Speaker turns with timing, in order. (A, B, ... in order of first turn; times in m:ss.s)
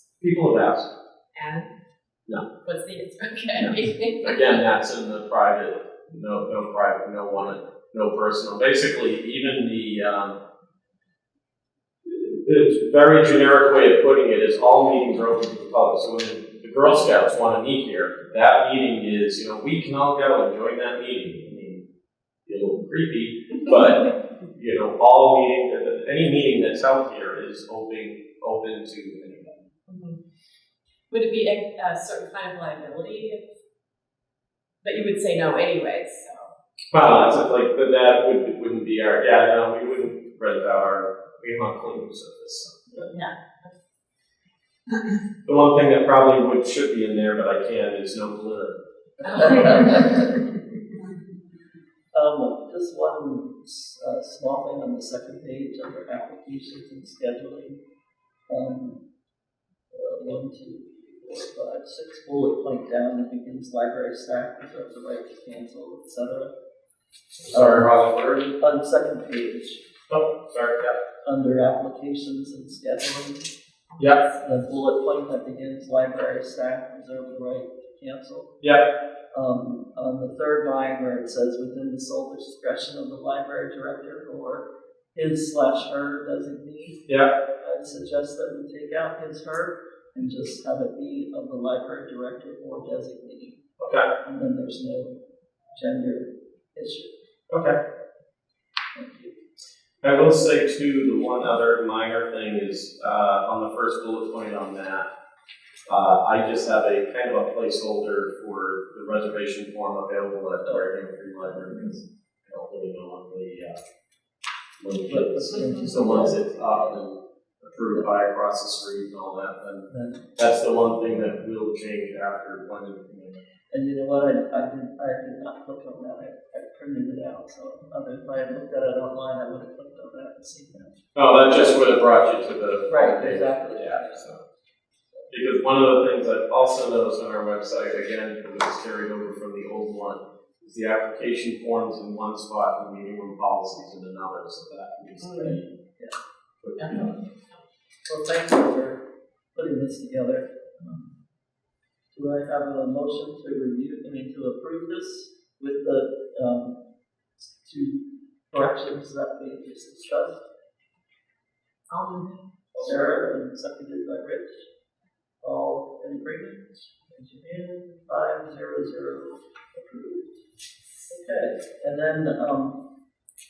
0:00.2-0:00.9 A
0:01.4-0:01.7 B
0:02.6-0:04.6 B
0:03.6-0:10.4 A
0:12.0-0:21.8 A
0:22.5-0:29.6 A
0:29.9-0:30.2 B
0:31.1-0:33.4 B
0:34.8-0:36.5 B
0:36.9-0:42.8 A
0:43.1-0:43.7 B
0:45.5-0:48.8 A
0:49.2-0:50.2 C
0:49.2-0:50.2 B
0:52.1-0:57.8 C
0:58.5-0:59.0 C
0:59.9-1:06.5 C
1:07.4-1:08.4 A
1:07.5-1:09.8 C
1:10.1-1:11.0 A
1:11.2-1:13.5 C
1:13.9-1:14.4 B
1:14.4-1:18.6 C
1:19.3-1:33.6 C
1:33.8-1:34.1 A
1:34.2-1:35.2 C
1:35.8-1:37.1 C
1:37.5-1:37.8 A
1:39.0-1:39.4 C
1:40.0-1:45.1 A
1:45.9-1:53.8 A
1:54.8-1:59.9 A
1:54.9-1:57.0 C
1:59.9-2:00.3 C
2:00.4-2:03.4 A
2:03.7-2:11.0 C
2:11.2-2:14.4 A
2:11.5-2:11.9 C
2:12.9-2:14.3 C
2:15.3-2:25.7 A
2:25.4-2:26.2 C
2:26.6-2:27.2 A
2:28.1-2:29.0 C
2:29.6-2:31.1 C
2:32.1-2:36.8 C
2:37.4-2:40.5 C
2:41.9-2:42.4 B
2:42.8-2:43.3 A
2:42.8-2:44.7 C
2:45.4-2:50.4 C
2:51.0-2:52.8 C